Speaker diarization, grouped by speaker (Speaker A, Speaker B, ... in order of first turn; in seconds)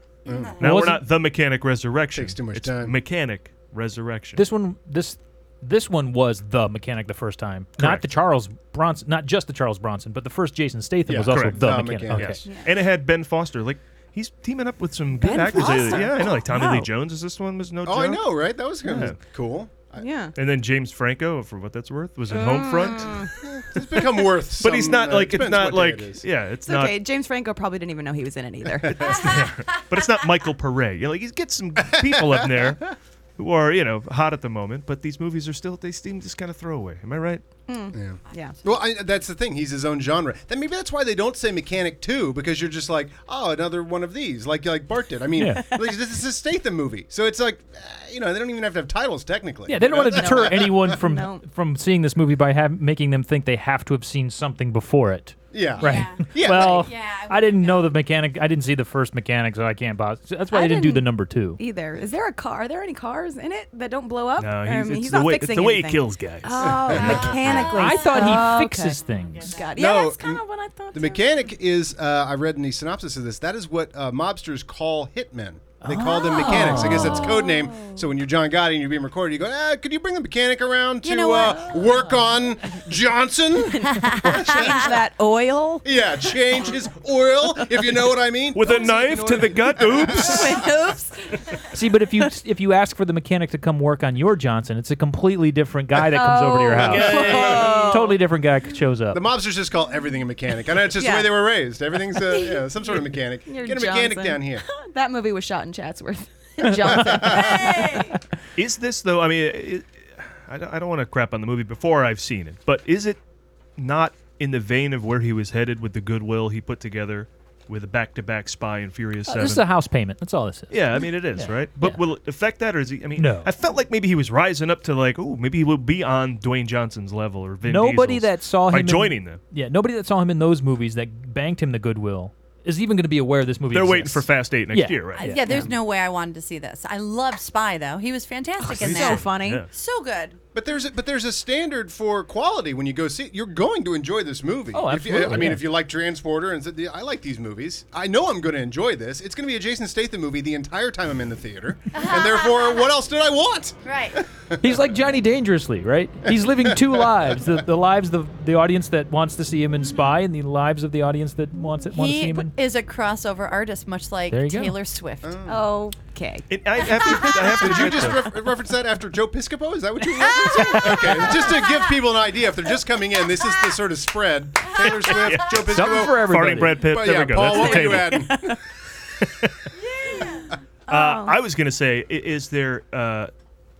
Speaker A: 0.2-0.6, 2.1-3.0, 11.1-12.4, 17.8-20.1, 23.4-26.2, 31.9-32.7, 37.9-51.0, 55.5-56.9, 66.6-67.4, 69.8-85.0, 85.8-90.6, 96.8-97.9, 99.1-104.7, 106.9-107.7, 140.5-154.8, 156.2-157.3, 165.2-165.7, 167.2-178.6
Speaker B: 0.6-1.0, 4.3-12.4, 45.4-45.7, 49.7-61.6, 67.7-69.5, 75.8-77.3, 91.7-99.2, 119.3-122.0, 123.2-123.5, 127.7-135.7, 144.7-145.7, 154.6-162.5, 164.3-164.8, 175.6-176.8
Speaker C: 0.6-4.4, 7.8-8.1, 11.3-18.2, 18.8-19.1, 20.4-23.3, 24.6-27.0, 29.1-37.4, 64.4-67.6, 88.5-90.6, 96.9-97.7, 108.5-113.2, 113.8-119.6, 120.7-129.4, 133.7-135.3, 138.7-139.7, 166.5-168.3, 175.0-178.3, 180.9-183.3
Speaker D: 12.4-12.7, 15.2-16.9, 20.0-20.3, 22.3-23.3, 26.6-29.3, 37.7-38.6, 50.0-51.4, 60.5-71.5, 75.9-78.1, 81.5-81.8, 83.7-85.9, 90.0-91.4, 96.1-98.2, 101.0-101.4, 102.1-108.1, 138.6-139.6, 165.5-167.7, 177.4-178.6, 180.9-181.4
Speaker E: 55.8-57.9, 66.8-69.7, 81.0-81.9, 107.3-108.2, 135.1-140.4, 151.9-152.9, 153.8-154.2, 161.9-165.5, 179.8-180.5